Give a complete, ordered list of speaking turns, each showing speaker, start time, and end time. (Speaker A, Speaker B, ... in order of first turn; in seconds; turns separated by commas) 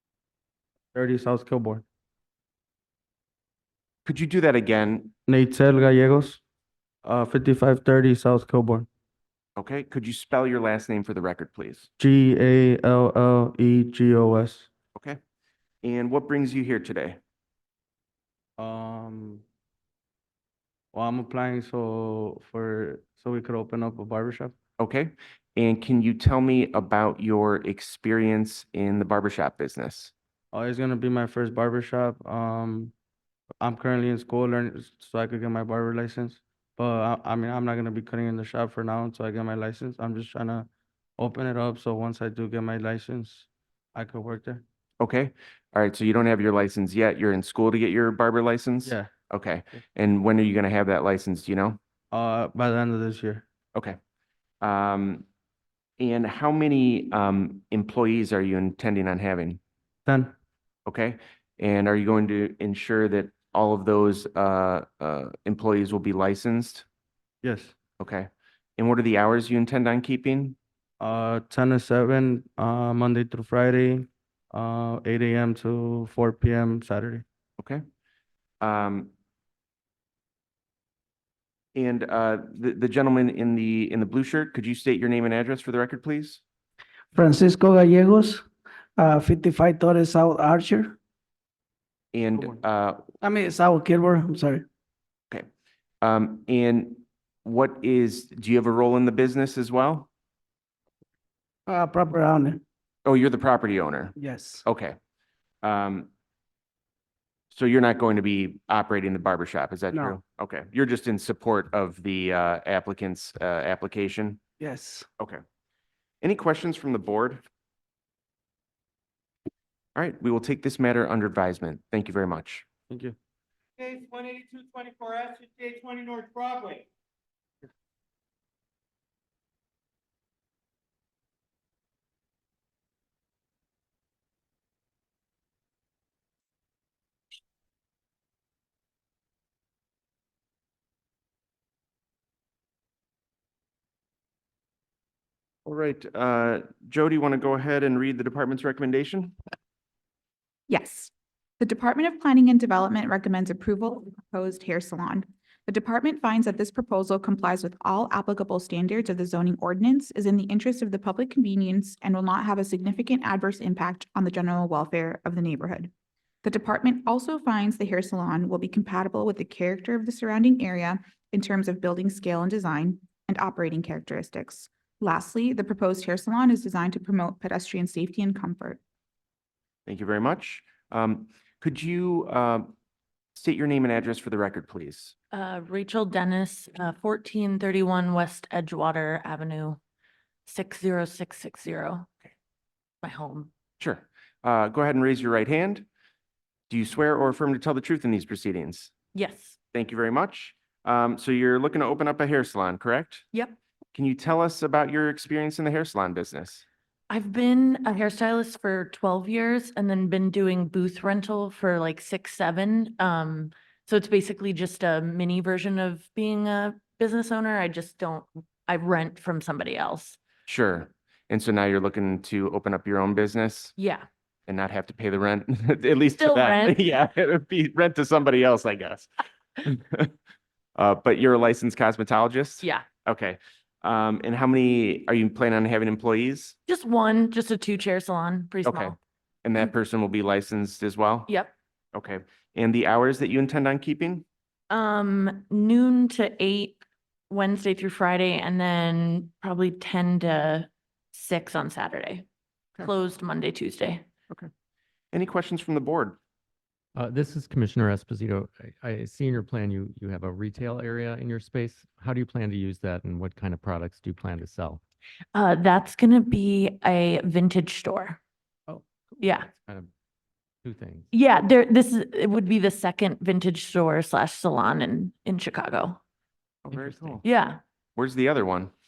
Speaker A: 0.9-1.8, Speaker B: 4.0-5.1, Speaker A: 5.3-6.4, Speaker A: 7.0-8.9, Speaker B: 9.6-11.9, Speaker A: 12.0-14.7, Speaker B: 15.8-17.2, Speaker A: 18.6-19.4, Speaker A: 20.9-24.5, Speaker B: 24.8-30.1, Speaker A: 30.5-32.9, Speaker A: 33.6-44.6, Speaker B: 45.0-51.8, Speaker A: 48.8-49.1, Speaker A: 52.1-53.4, Speaker B: 54.6-55.2, Speaker B: 56.0-59.6, Speaker A: 60.0-60.3, Speaker B: 60.9-66.8, Speaker A: 67.4-67.7, Speaker B: 68.0-70.5, Speaker A: 71.0-77.2, Speaker B: 77.6-77.8, Speaker B: 78.6-79.1, Speaker B: 81.7-86.4, Speaker C: 87.1-88.5, Speaker C: 89.0-91.0, Speaker B: 92.1-93.0, Speaker C: 93.2-94.6, Speaker B: 96.0-100.1, Speaker C: 101.7-102.6, Speaker B: 103.0-105.0, Speaker C: 104.2-104.6, Speaker B: 105.6-106.1, Speaker B: 107.5-114.4, Speaker C: 114.6-115.0, Speaker B: 116.2-117.4, Speaker B: 120.0-122.7, Speaker A: 122.9-123.1, Speaker D: 123.8-126.9, Speaker B: 145.7-149.3, Speaker E: 150.7-165.9, Speaker E: 166.4-178.8, Speaker B: 179.8-182.7, Speaker B: 183.3-185.1, Speaker F: 185.3-189.8, Speaker F: 190.4-192.1, Speaker F: 193.0-193.5, Speaker B: 193.8-195.8, Speaker B: 196.7-198.9, Speaker F: 199.1-199.6, Speaker B: 199.7-203.2, Speaker B: 203.9-206.6, Speaker F: 207.1-220.2, Speaker B: 220.5-223.7, Speaker F: 223.8-224.1, Speaker B: 224.5-229.1, Speaker F: 226.2-226.8, Speaker B: 229.6-230.1, Speaker B: 230.8-236.5, Speaker F: 232.6-232.8, Speaker F: 236.7-239.0, Speaker B: 238.6-241.3, Speaker F: 241.3-241.5, Speaker B: 241.9-244.2, Speaker F: 244.7-252.2, Speaker F: 252.8-254.0, Speaker B: 255.1-256.2, Speaker G: 256.9-264.8, Speaker F: 265.3-268.2, Speaker F: 269.2-269.5, Speaker G: 269.5-269.9, Speaker G: 270.6-271.1, Speaker F: 271.1-276.0, Speaker B: 276.6-277.2, Speaker G: 276.7-277.2, Speaker F: 277.2-277.6, Speaker B: 277.9-278.7